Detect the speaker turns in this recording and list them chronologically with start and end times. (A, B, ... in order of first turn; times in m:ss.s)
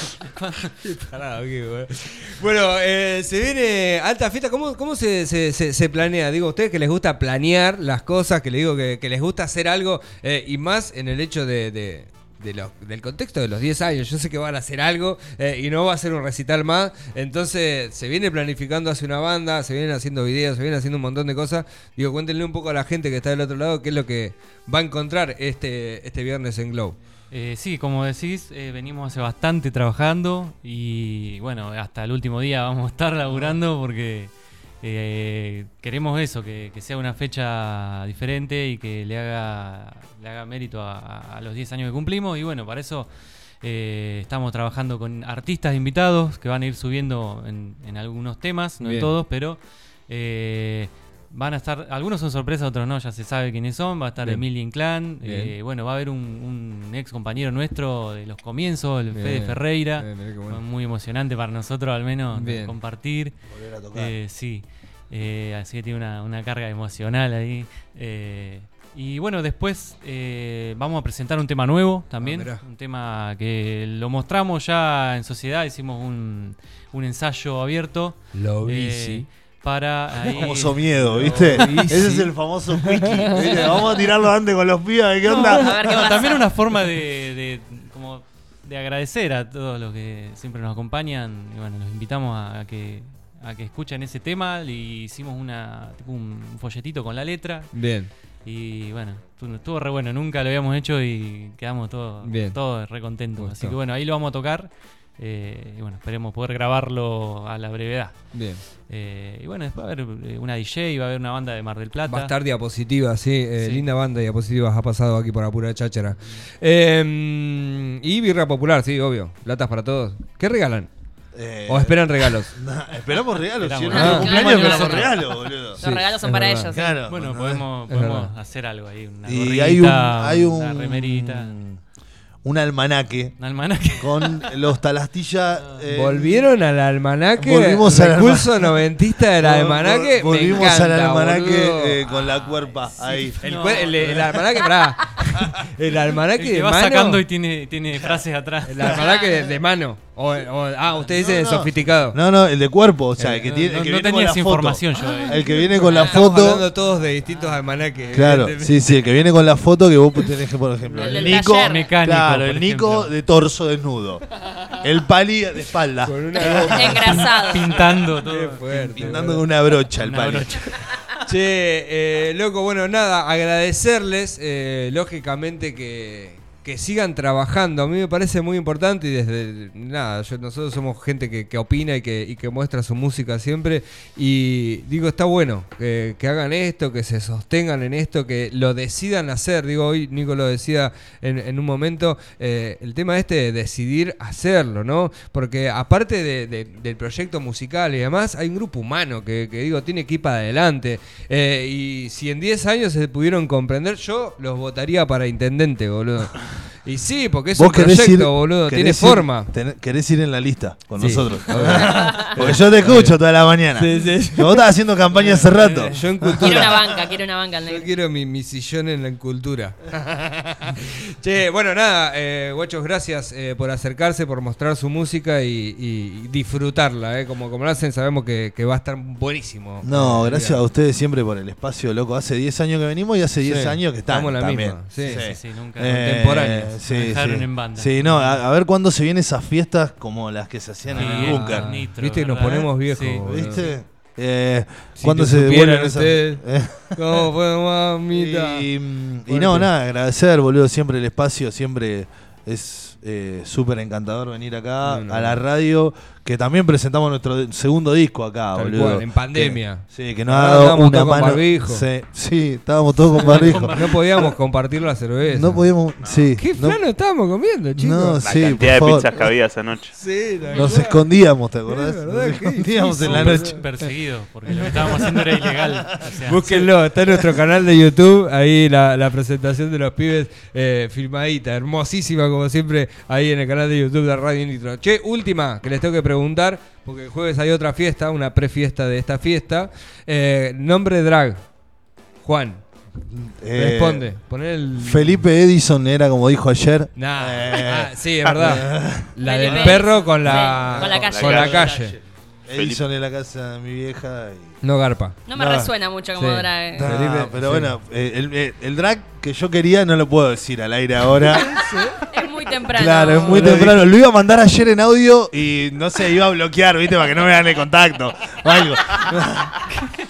0:00.2-0:00.6 A
0:00.8-0:27.0 B
0:27.3-1:03.3 A
0:48.8-0:49.1 B
0:54.2-0:54.5 B
0:55.2-0:55.5 B
0:59.1-1:00.6 B
1:02.3-1:02.7 B
1:03.5-1:04.1 C
1:03.9-1:22.3 A
1:12.2-1:12.6 B
1:18.3-1:19.2 B
1:20.3-1:25.9 C
1:21.2-1:22.1 B
1:22.9-1:23.3 B
1:25.2-1:26.5 D
1:25.7-1:37.8 A
1:37.7-1:38.1 B
1:38.4-1:48.2 A
1:42.2-1:42.6 B
1:43.4-1:43.8 B
1:48.3-1:48.6 B
1:48.8-1:52.3 A
1:52.1-2:00.9 B
1:53.6-1:53.8 A
2:01.3-2:05.8 C
2:01.7-2:02.5 B
2:03.6-2:05.1 A
2:03.9-2:07.0 D
2:04.0-2:04.3 B
2:05.8-2:06.7 B
2:06.7-2:07.6 C
2:07.0-2:11.5 A
2:07.9-2:08.3 B
2:09.2-2:11.8 C
2:12.4-2:13.3 C
2:13.4-2:14.6 A
2:14.0-2:16.5 C
2:15.6-2:15.8 A
2:15.9-2:22.0 B
2:17.4-2:18.8 C
2:19.4-2:23.4 C
2:22.0-2:24.4 A
2:23.4-2:27.2 B
2:26.4-2:29.0 A
2:28.6-2:32.2 B
2:28.9-2:29.6 D
2:31.1-2:36.6 C
2:33.2-2:36.0 A
2:35.2-2:36.2 D
2:35.9-2:39.0 B
2:36.8-2:38.4 A
2:38.1-2:44.2 C
2:40.9-2:43.1 A
2:41.0-2:41.9 D
2:44.8-2:47.3 C
2:46.0-2:47.1 B
2:46.7-2:51.0 A
2:46.7-2:47.7 D
2:47.7-2:49.4 B
2:49.0-2:50.9 C
2:51.2-3:29.5 B
3:27.5-3:36.8 C
3:31.0-3:37.1 B
3:31.8-3:32.3 D
3:36.4-3:37.9 D
3:37.6-3:50.6 B
3:49.8-4:01.7 C
3:53.4-3:55.3 B
3:55.0-3:56.1 A
3:55.9-3:56.8 B
3:56.8-3:58.4 A
4:00.9-4:03.2 A
4:01.0-4:03.8 B
4:03.2-4:07.3 C
4:05.0-4:08.7 B
4:08.1-4:24.3 C
4:09.3-4:09.7 B
4:14.8-4:15.4 B
4:18.5-4:21.8 B
4:23.1-4:24.0 A
4:23.2-4:25.8 B
4:25.2-4:26.8 C
4:26.0-4:26.3 E
4:26.3-4:28.4 B
4:27.8-4:29.1 C
4:28.2-4:30.0 E
4:30.0-4:31.1 B
4:30.5-4:33.6 C
4:31.6-4:33.8 B
4:33.0-4:36.6 A
4:34.5-4:35.0 B
4:36.2-4:51.4 B
4:52.2-4:52.6 B
4:53.0-4:54.1 C
4:53.6-4:55.2 B
4:54.8-4:59.8 C
4:57.0-5:02.0 B
4:58.2-4:58.6 E
4:59.2-5:01.6 D
5:00.6-5:02.0 E
5:02.5-5:04.6 C
5:02.5-5:02.8 E
5:04.6-5:05.2 B
5:05.2-5:06.9 D
5:05.3-5:05.7 C
5:06.1-5:07.7 B
5:06.7-5:11.6 C
5:11.3-5:12.0 B
5:12.0-5:13.4 D
5:12.7-5:19.6 C
5:13.2-5:13.8 B